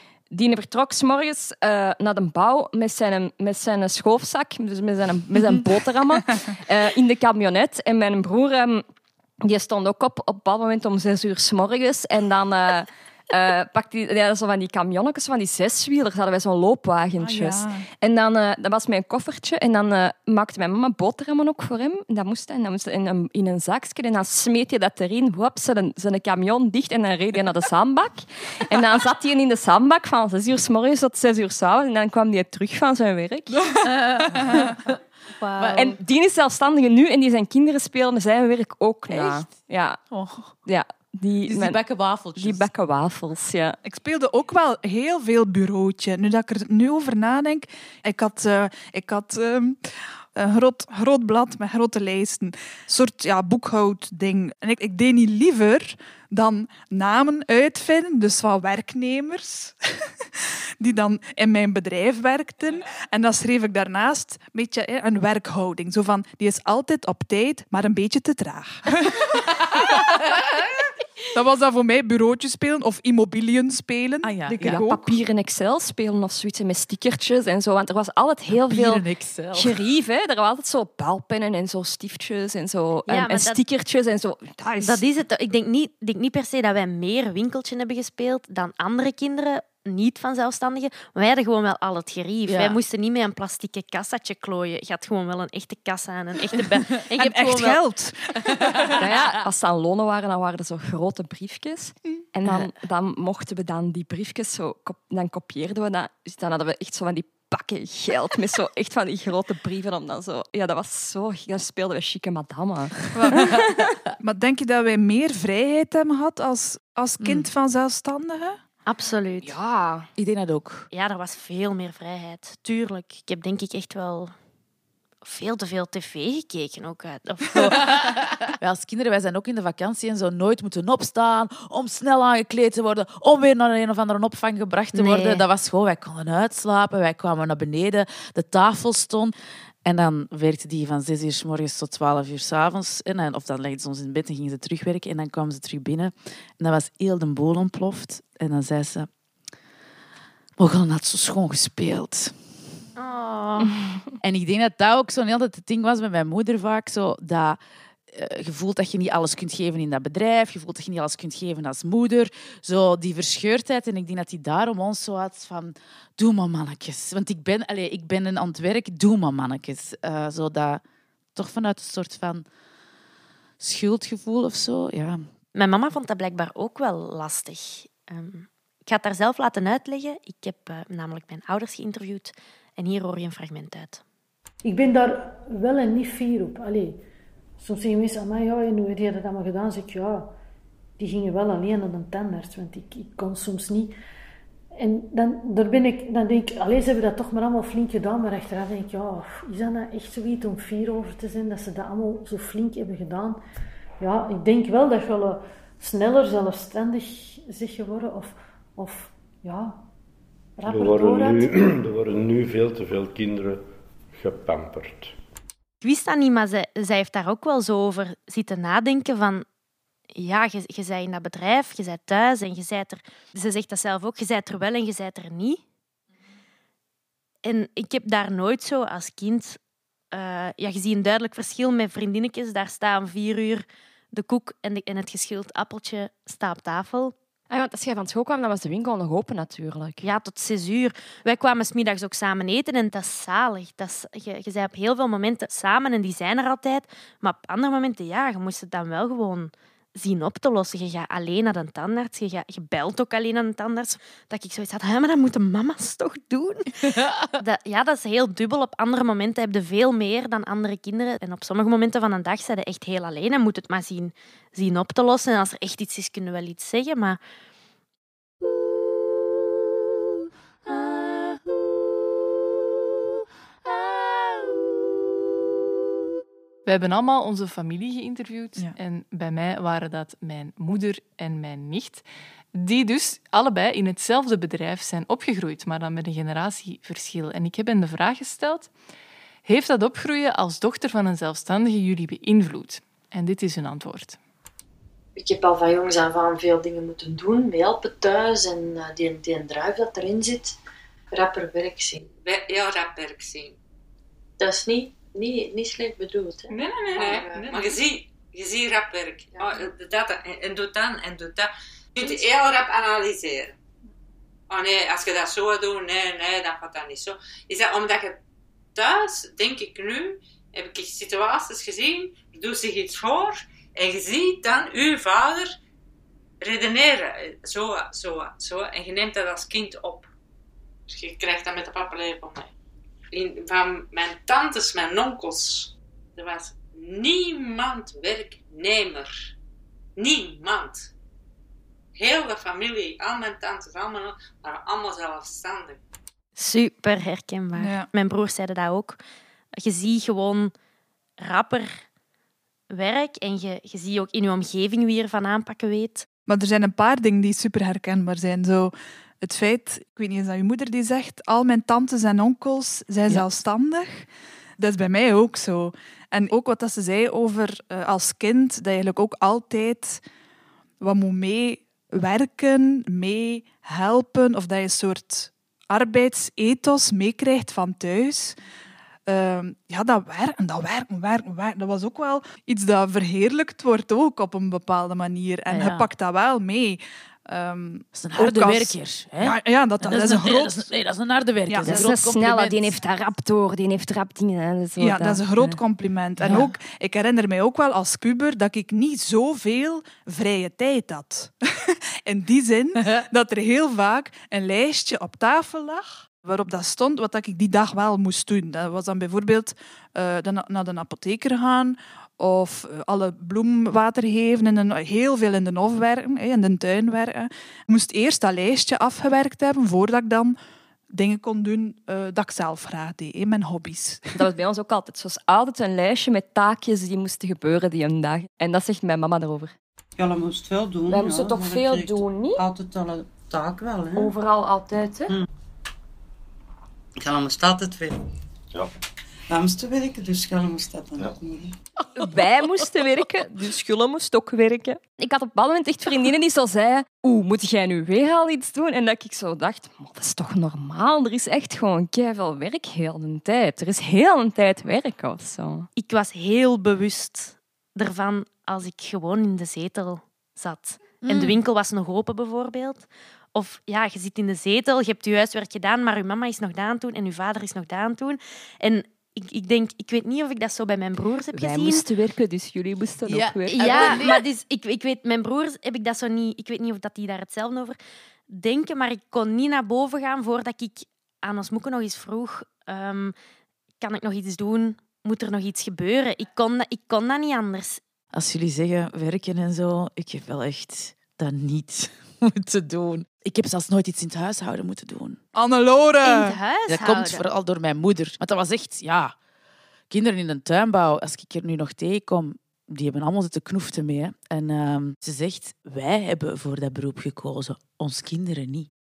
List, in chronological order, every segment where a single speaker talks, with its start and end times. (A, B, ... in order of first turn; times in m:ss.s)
0:00.3-0:08.8 A
0:09.4-0:33.6 A
0:17.2-0:17.9 B
0:33.8-0:36.0 C
0:35.5-0:35.8 D
0:35.7-0:40.0 A
0:39.1-0:39.5 C
0:40.1-0:40.6 C
0:40.6-0:41.8 A
0:41.5-0:42.7 C
0:42.4-0:43.8 A
0:43.8-1:09.9 B
1:11.3-1:15.1 B
1:14.2-1:14.8 C
1:14.6-1:25.0 A
1:18.5-1:19.8 C
1:23.1-1:23.6 D
1:24.8-1:37.8 D
1:32.5-1:32.8 C
1:36.9-1:39.0 B
1:39.0-1:53.7 A
1:53.1-1:58.6 B
1:57.2-1:57.5 C
1:58.9-1:59.5 D
1:59.4-2:00.1 A
2:00.2-2:00.9 C
2:00.9-2:04.3 D
2:05.2-2:08.2 D
2:07.5-2:19.3 C
2:14.9-2:15.4 D
2:19.8-2:29.1 C
2:30.6-2:32.4 C
2:33.0-2:33.8 D
2:34.2-2:37.6 C
2:38.1-2:50.8 C
2:51.4-2:52.4 C
2:53.6-2:55.3 C
2:55.6-3:04.0 D
3:04.6-3:07.0 E
3:07.6-3:10.3 E
3:11.0-3:13.9 E
3:14.8-3:23.4 E
3:24.0-3:29.8 E
3:30.6-3:31.4 E
3:30.7-3:35.1 F
3:35.8-3:39.4 D
3:40.2-3:45.6 D
3:47.4-3:49.6 D
3:50.1-3:57.1 D
3:57.5-4:00.0 A
4:00.0-4:27.2 D
4:16.8-4:17.3 C
4:36.6-4:48.7 G
4:49.4-4:54.2 G
4:55.2-5:00.6 H
5:01.1-5:02.1 H
5:02.1-5:03.6 I
5:04.4-5:07.4 H
5:06.5-5:07.8 G
5:06.9-5:13.6 I
5:14.5-5:18.2 I
5:18.8-5:25.5 I
5:26.4-5:30.1 I
5:30.9-5:32.5 I
5:33.1-5:39.1 I
5:40.0-5:40.9 I
5:42.0-5:45.8 I
5:46.4-5:49.0 D
5:47.6-5:47.9 B
5:49.5-5:50.5 D
5:51.2-5:51.8 D
5:52.7-5:56.1 D
5:56.3-6:10.0 B
6:10.8-6:18.4 B
6:19.1-6:30.7 B
6:25.5-6:25.9 C
6:27.9-6:32.7 C
6:31.5-6:31.8 B
6:31.7-6:35.6 A
6:34.8-7:00.4 B
6:36.2-6:36.5 G
7:00.9-7:04.1 B
7:04.2-7:09.6 A
7:10.0-7:14.2 J
7:10.9-7:12.4 A
7:14.0-7:15.1 A
7:17.0-7:18.0 J
7:19.3-7:21.6 J
7:22.0-7:35.7 A
7:35.8-7:51.8 D
7:41.0-7:41.4 C
7:51.3-7:54.0 A
7:53.1-7:54.3 C
7:53.6-7:57.8 D
7:58.3-8:03.2 D
8:03.8-8:07.8 D
8:08.1-8:15.2 C
8:15.3-8:16.4 B
8:16.0-8:17.2 D
8:16.7-8:19.2 C
8:19.9-8:28.7 C